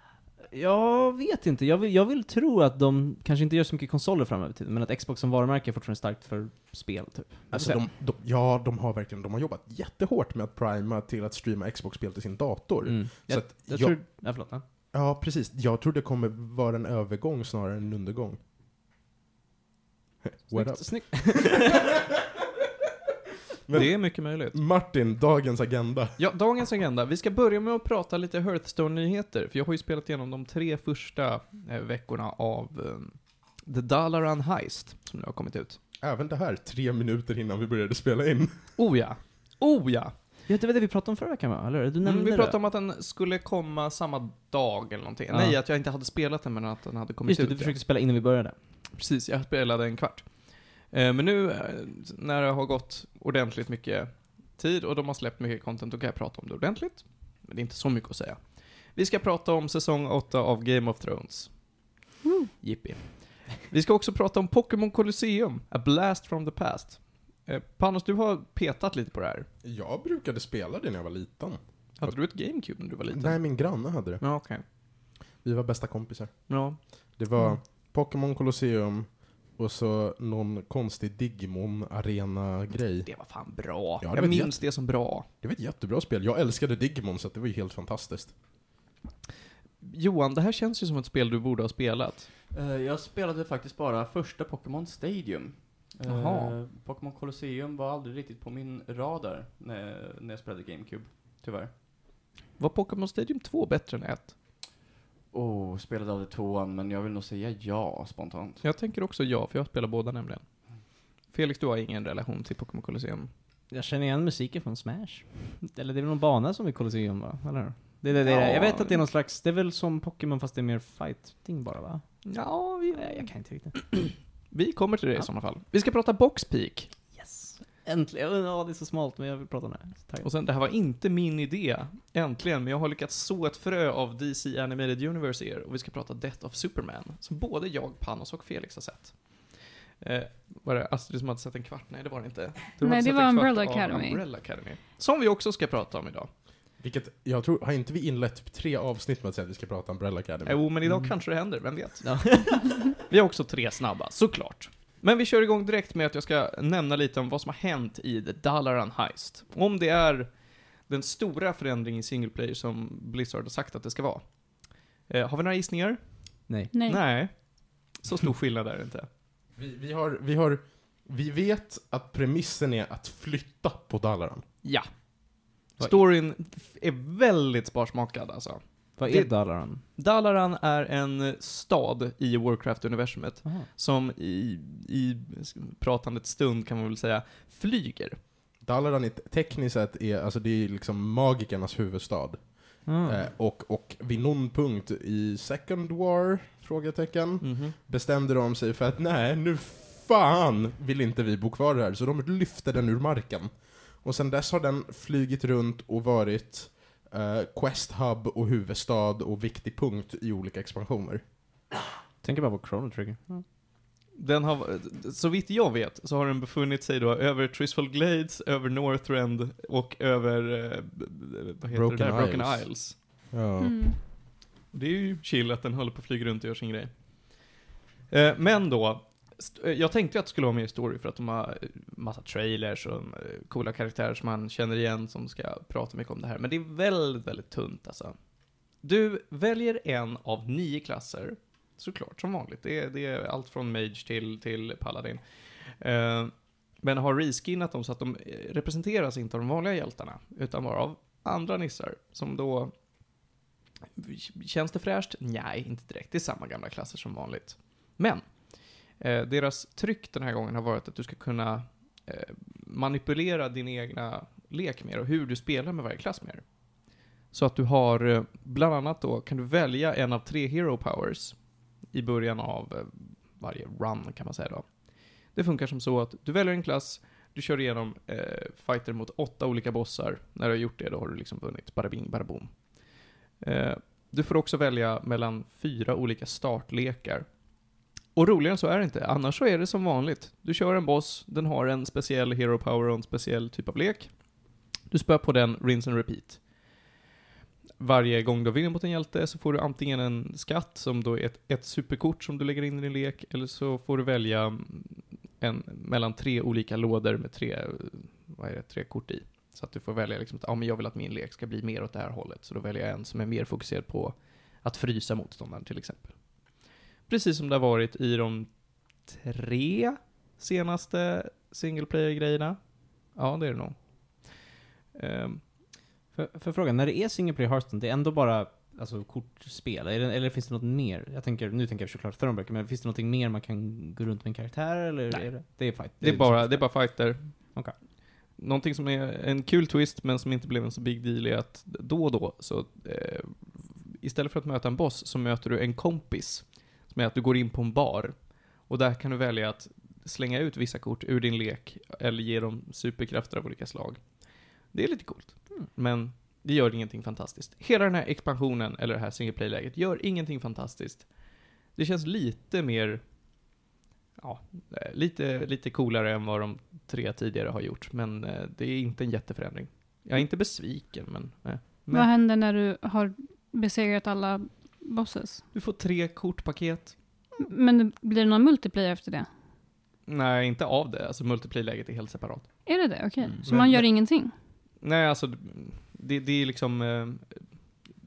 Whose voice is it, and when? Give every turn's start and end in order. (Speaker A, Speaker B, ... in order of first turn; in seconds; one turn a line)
Speaker A: 0.5-7.8
Speaker B: 7.5-14.0
Speaker A: 12.8-14.6
Speaker B: 14.9-18.4
Speaker B: 20.2-21.8
Speaker A: 20.5-21.8
Speaker B: 23.6-26.2
Speaker C: 23.7-24.6
Speaker C: 26.2-35.8
Speaker B: 36.0-38.6
Speaker C: 38.8-40.1
Speaker A: 40.5-42.5
Speaker C: 42.0-47.7
Speaker A: 45.3-45.6
Speaker A: 47.2-48.5
Speaker C: 49.0-50.3
Speaker C: 50.9-58.4
Speaker C: 58.9-61.5
Speaker D: 62.2-62.5
Speaker C: 62.6-69.5
Speaker B: 69.6-72.2
Speaker C: 72.0-73.4
Speaker B: 73.1-74.2
Speaker C: 74.2-74.6
Speaker B: 75.4-76.5
Speaker C: 76.5-76.8
Speaker B: 77.2-83.1
Speaker C: 83.0-85.3
Speaker B: 84.0-84.6
Speaker B: 85.4-88.3
Speaker C: 89.8-92.3
Speaker E: 92.5-101.7
Speaker C: 96.0-96.5
Speaker C: 102.6-104.3
Speaker E: 105.3-108.6
Speaker C: 108.6-110.4
Speaker C: 111.3-113.3
Speaker A: 113.7-122.2
Speaker C: 118.1-119.0
Speaker C: 122.2-126.9
Speaker A: 122.9-123.7
Speaker A: 127.1-130.3
Speaker C: 130.2-146.3
Speaker D: 142.8-144.2
Speaker B: 146.8-150.6
Speaker C: 150.4-160.3
Speaker A: 152.0-152.8
Speaker C: 160.8-164.2
Speaker C: 165.1-169.1
Speaker D: 166.7-167.0
Speaker B: 169.6-174.4
Speaker C: 175.8-179.3
Speaker A: 179.0-179.8
Speaker C: 179.9-188.2
Speaker B: 188.6-211.2
Speaker A: 192.8-193.2
Speaker C: 197.4-197.7
Speaker A: 212.2-213.4
Speaker C: 214.2-222.9
Speaker B: 221.7-222.7
Speaker B: 223.3-223.8
Speaker D: 223.6-223.9
Speaker C: 224.7-226.9
Speaker C: 228.1-238.1
Speaker C: 238.8-252.7
Speaker C: 254.0-258.2
Speaker C: 259.0-266.4
Speaker C: 267.3-271.4
Speaker C: 271.9-274.6
Speaker C: 275.3-282.6
Speaker C: 283.4-287.3
Speaker C: 288.1-294.1
Speaker C: 294.9-296.4
Speaker C: 297.8-316.1
Speaker C: 317.1-318.5
Speaker C: 319.0-322.6
Speaker C: 323.1-324.3
Speaker C: 324.9-325.4
Speaker A: 326.1-336.7
Speaker C: 336.0-337.3
Speaker C: 338.4-348.1
Speaker C: 348.7-354.0
Speaker C: 354.7-361.1
Speaker C: 361.7-363.0
Speaker C: 364.2-372.1
Speaker D: 371.9-375.4
Speaker C: 375.5-376.9
Speaker D: 377.4-379.3
Speaker C: 380.1-382.5
Speaker D: 382.6-384.3
Speaker C: 383.4-383.8
Speaker C: 384.8-387.4